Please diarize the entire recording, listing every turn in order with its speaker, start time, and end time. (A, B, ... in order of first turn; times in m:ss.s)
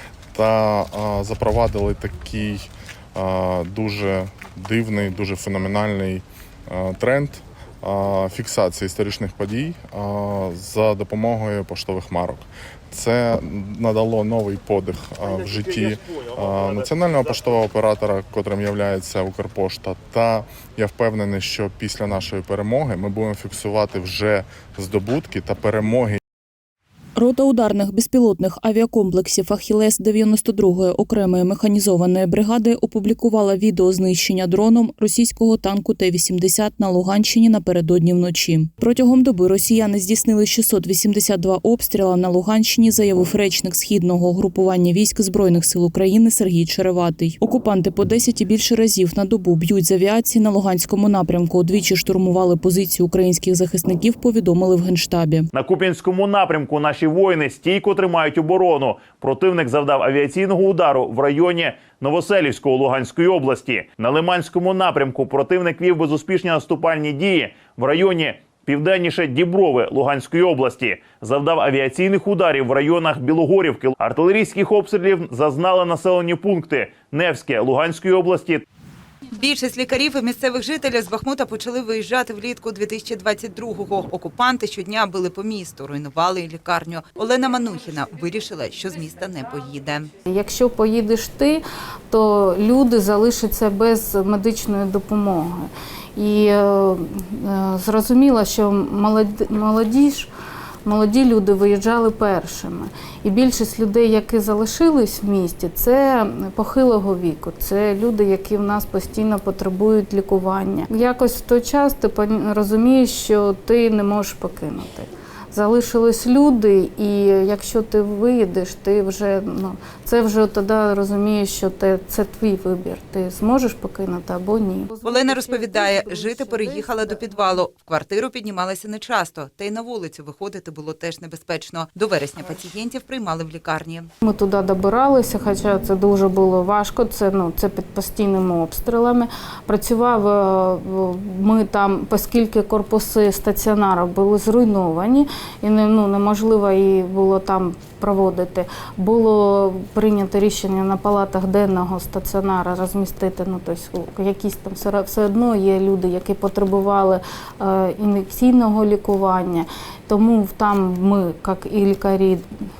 0:00.3-0:26.2 A
0:27.2-0:55.5 B
0:55.5-1:18.6 C
1:19.3-1:30.1 D
1:30.3-1:40.3 E
1:40.8-2:07.6 E
2:05.0-2:14.1 D
2:14.2-2:42.4 E